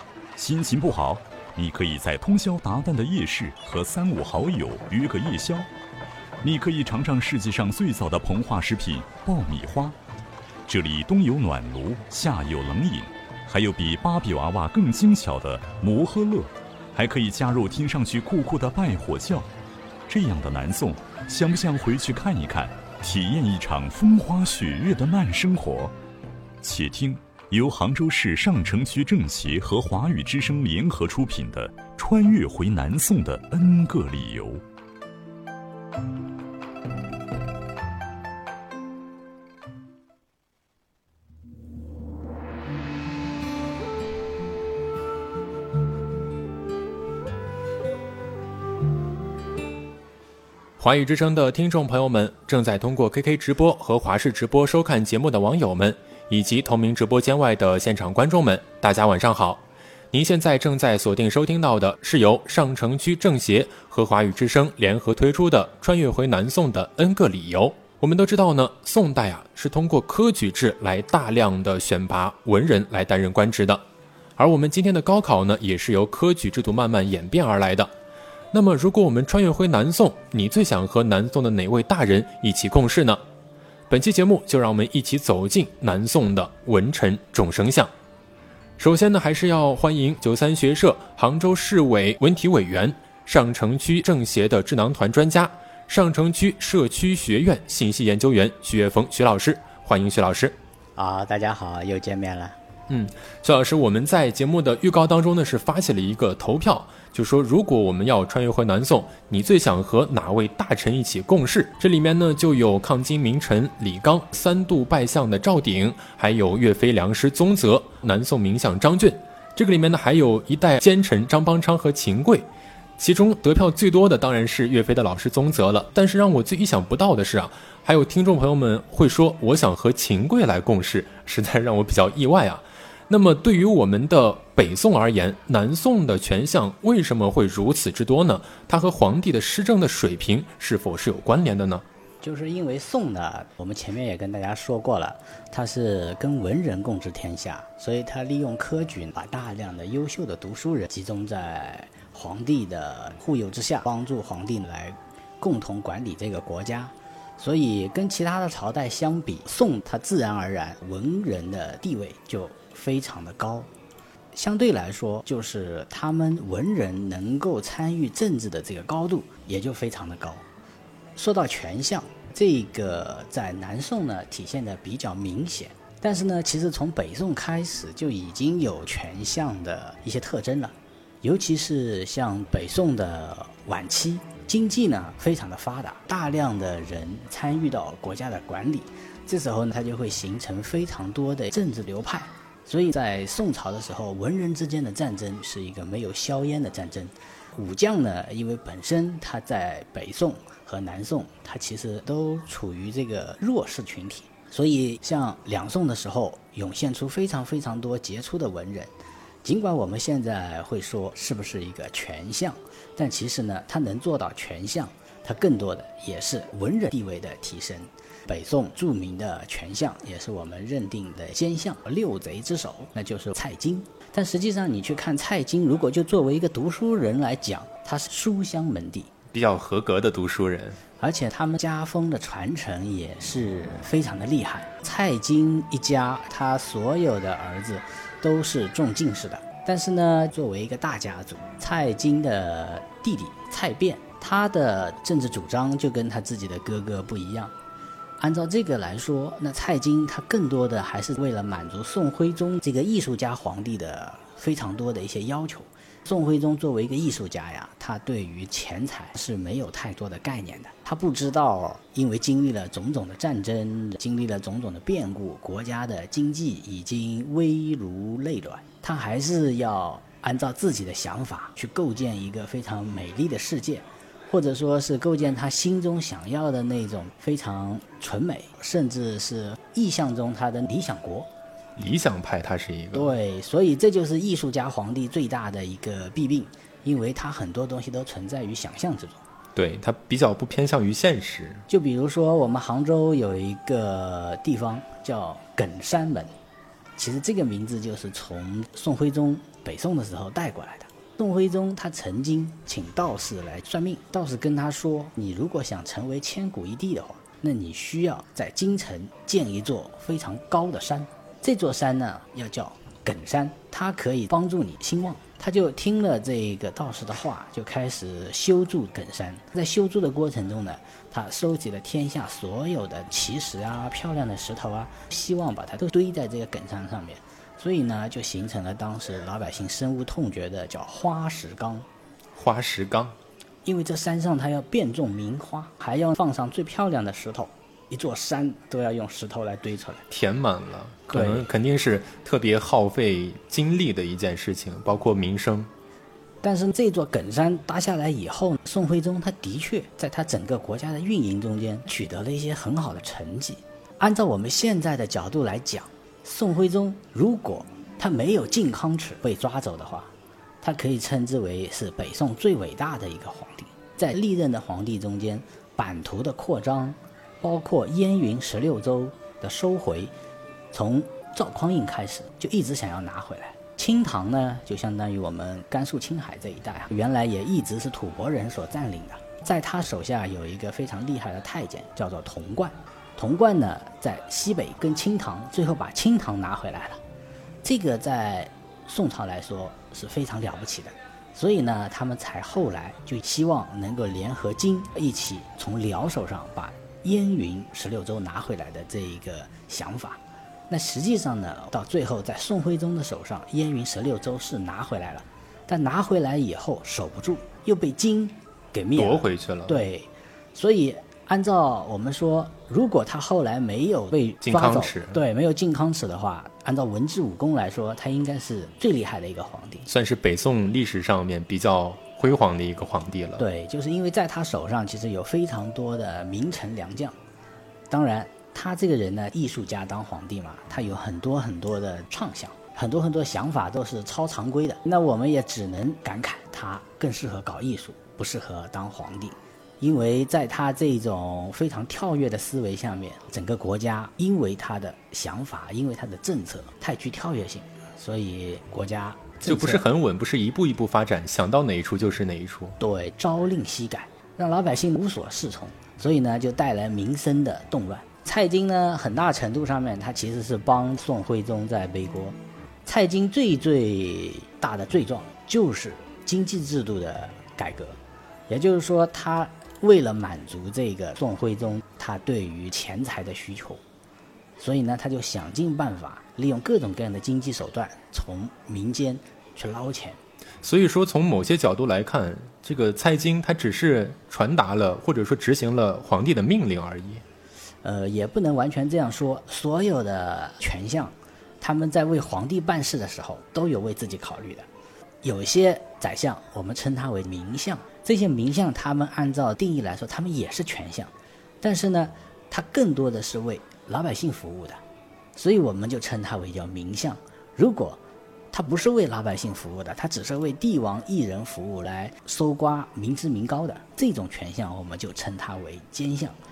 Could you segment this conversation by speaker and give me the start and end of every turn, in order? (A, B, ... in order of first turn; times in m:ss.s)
0:00.4-0:05.7 A
0:06.4-0:09.9 A
0:10.7-0:19.5 A
0:20.1-0:25.9 A
0:26.6-0:34.6 A
0:50.8-1:13.8 B
1:14.4-1:17.9 B
1:18.5-1:23.2 B
1:23.9-1:27.9 B
1:28.8-1:40.6 B
1:41.0-1:42.6 C
1:42.9-2:21.8 B
2:22.2-2:43.7 C
2:44.3-2:50.4 C
2:51.2-3:28.9 C
3:29.4-3:49.1 C
3:49.3-3:50.8 B
3:51.0-4:07.5 C
4:08.2-4:41.3 C
4:41.8-4:43.1 B
4:42.9-4:49.2 C
4:49.5-4:51.6 B
4:51.7-4:56.3 C
4:57.0-5:31.8 C
5:32.3-5:33.2 B
5:33.6-5:40.0 C
5:40.1-5:45.7 B
5:41.1-5:41.5 C
5:46.4-6:10.1 C
6:10.7-6:27.0 C
6:27.6-6:59.8 C
6:49.0-6:49.8 B
6:54.4-6:55.2 B
6:59.9-7:03.4 B
7:03.4-7:07.2 C
7:07.9-7:29.8 C
7:29.4-7:32.8 B
7:32.8-7:48.0 C
7:48.5-7:53.8 C
7:54.6-8:00.2 C
8:00.6-8:07.2 B
8:07.8-8:14.7 C
8:15.2-8:24.8 C
8:25.4-8:28.0 C
8:28.5-8:36.4 C